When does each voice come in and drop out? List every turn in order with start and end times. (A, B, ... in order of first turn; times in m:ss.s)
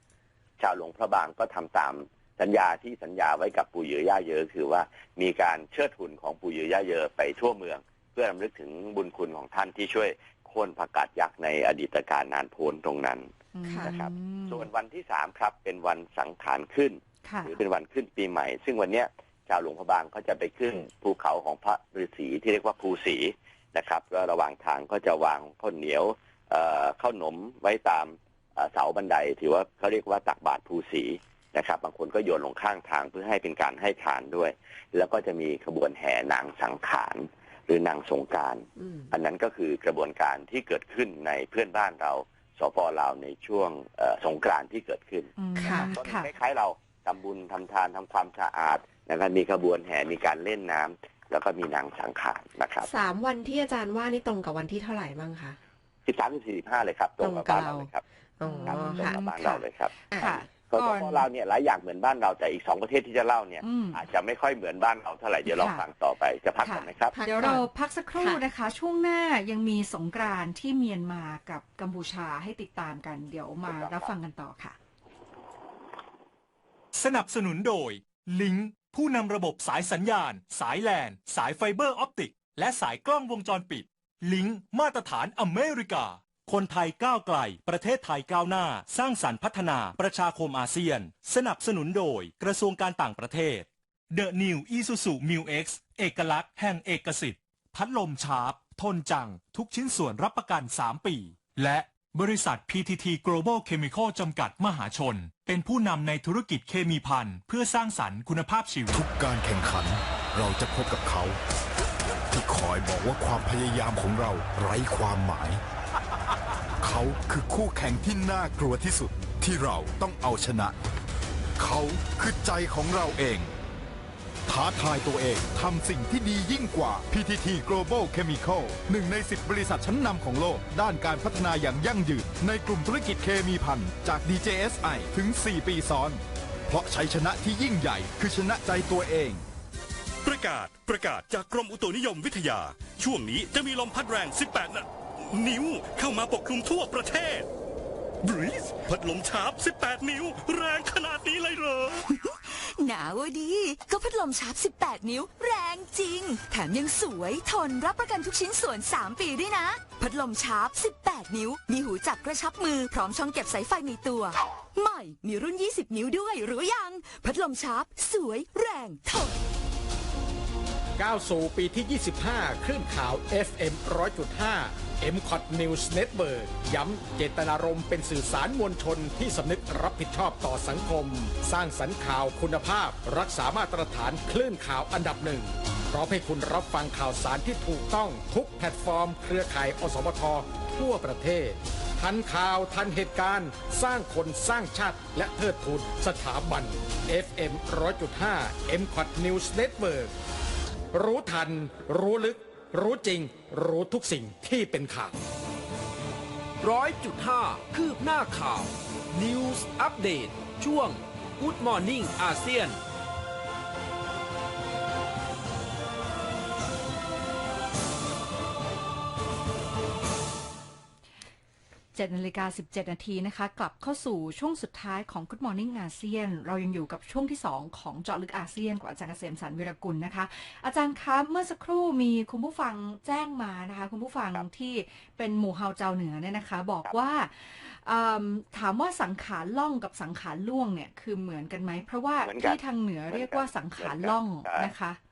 0:00.6-0:13.3 A
0:13.5-0:14.7 B
0:13.6-0:13.9 C
0:13.8-0:45.3 A
0:17.2-0:17.6 B
0:38.8-0:39.1 C
0:45.4-0:46.3 B
0:45.6-0:46.0 C
0:45.9-0:52.9 A
0:52.8-0:55.6 C
0:56.1-0:58.0 A
0:57.2-0:57.8 C
0:58.4-1:00.5 C
0:58.4-0:59.2 B
0:58.6-0:59.9 A
1:00.2-1:01.3 B
1:00.7-1:07.6 A
1:03.6-1:04.0 B
1:05.5-1:05.8 B
1:06.6-1:14.8 B
1:07.1-1:07.7 C
1:13.6-1:14.1 A
1:16.9-1:49.0 D
1:48.9-1:51.4 E
1:52.3-1:55.6 E
1:56.8-2:00.8 E
2:01.6-2:03.5 E
2:04.5-2:19.4 E
2:20.2-2:27.5 F
2:28.2-2:32.0 F
2:32.1-2:49.4 G
2:51.0-3:20.1 H
3:20.9-3:25.2 H
3:26.6-3:32.8 I
3:41.9-4:05.0 B
4:02.2-4:04.7 A